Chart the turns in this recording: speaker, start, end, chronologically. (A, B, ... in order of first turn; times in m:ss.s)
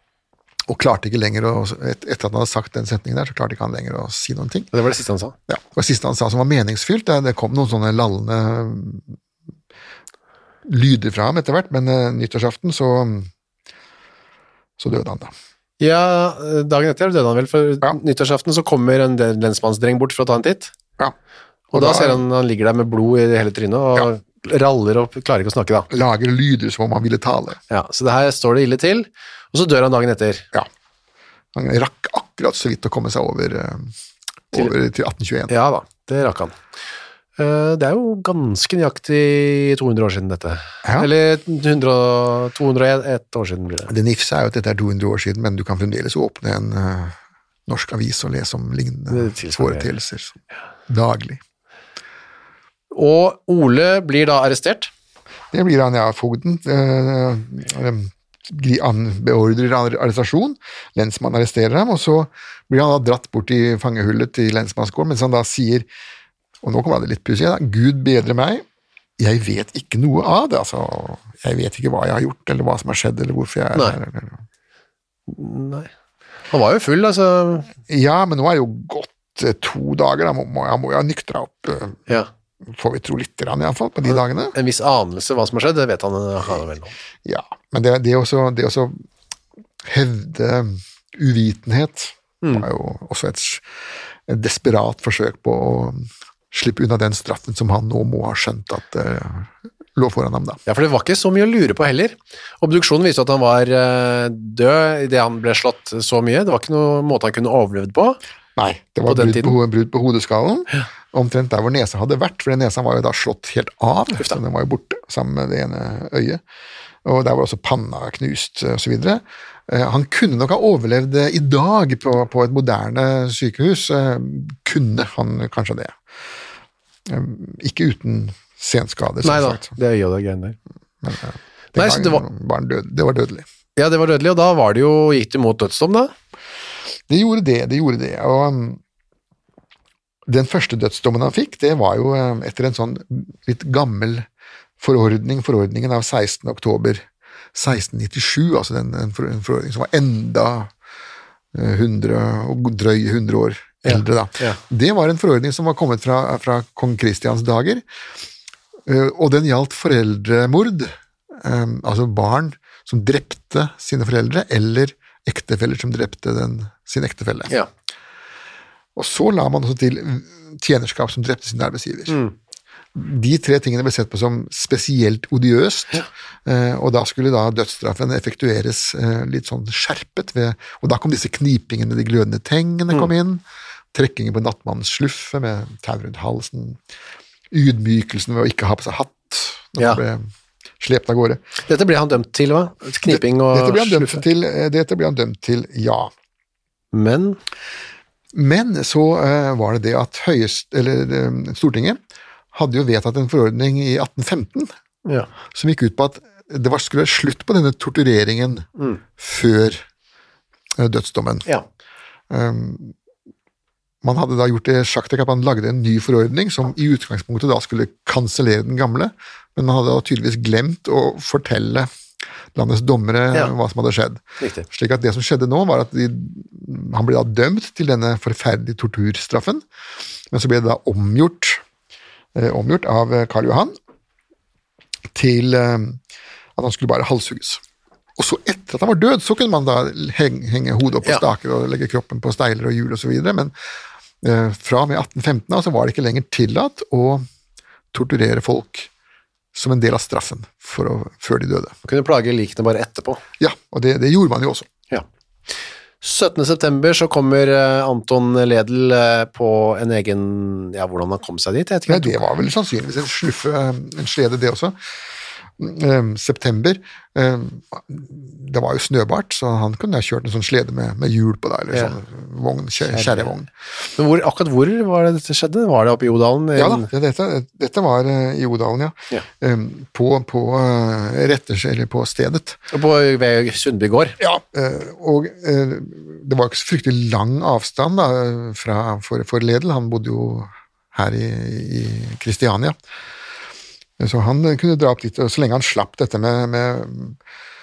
0:00.7-0:04.7 A
0:04.7-0:05.3 B
0:05.5-0:09.1 A
0:10.6-0:13.3 A
0:14.8-0:15.3 A
0:15.8-0:20.7 B
0:21.7-0:25.9 B
0:21.7-0:22.2 A
0:25.9-0:27.6 A
0:27.7-0:30.4 B
0:31.5-0:33.9 A
0:34.5-0:35.6 A
0:35.5-0:36.6 B
0:37.4-0:43.9 B
0:43.9-0:47.2 A
0:47.7-0:50.4 A
0:49.1-0:49.9 B
0:50.9-0:51.4 A
0:52.9-0:54.9 B
0:55.5-1:05.9 A
1:06.6-1:08.6 A
1:09.2-1:14.4 A
1:15.3-1:15.9 B
1:16.5-1:17.7 B
1:17.9-1:22.0 A
1:22.7-1:24.5 A
1:24.1-1:26.9 B
1:27.2-1:28.9 A
1:29.8-1:33.6 A
1:32.4-1:32.7 B
1:34.3-1:40.6 A
1:40.7-1:48.2 B
1:48.6-1:56.4 A
1:49.1-1:49.6 B
1:57.0-2:06.0 A
2:07.0-2:09.7 A
2:09.2-2:10.6 B
2:11.0-2:13.4 A
2:11.7-2:12.2 B
2:13.8-2:16.1 B
2:17.1-2:18.8 A
2:20.3-2:24.2 A
2:24.8-2:30.7 A
2:31.5-2:37.8 A
2:33.8-2:34.6 B
2:38.8-2:47.6 A
2:49.0-2:52.2 A
2:52.1-2:52.3 B
2:52.9-3:03.4 A
3:03.9-3:06.8 A
3:07.5-3:10.2 A
3:10.8-3:11.4 A
3:11.7-3:14.2 B
3:13.0-3:16.1 A
3:16.9-3:17.4 B
3:18.3-3:22.0 A
3:22.5-3:24.7 A
3:25.5-3:29.8 A
3:30.8-3:31.5 A
3:32.3-3:32.9 A
3:34.0-3:41.9 A
3:42.5-3:49.6 A
3:44.4-3:44.6 B
3:50.3-3:51.6 A
3:52.3-3:53.8 A
3:55.1-3:56.0 A
3:56.6-3:57.6 A
3:58.2-4:03.5 A
4:04.2-4:07.2 A
4:07.9-4:08.9 A
4:09.5-4:11.8 A
4:11.8-4:13.2 B
4:13.4-4:14.7 A
4:16.0-4:22.2 B
4:21.9-4:24.8 A
4:25.6-4:33.5 A
4:32.9-4:33.3 B
4:34.0-4:36.9 B
4:36.6-4:42.6 A
4:42.7-4:44.2 B
4:44.2-4:52.8 A
4:54.0-4:57.2 A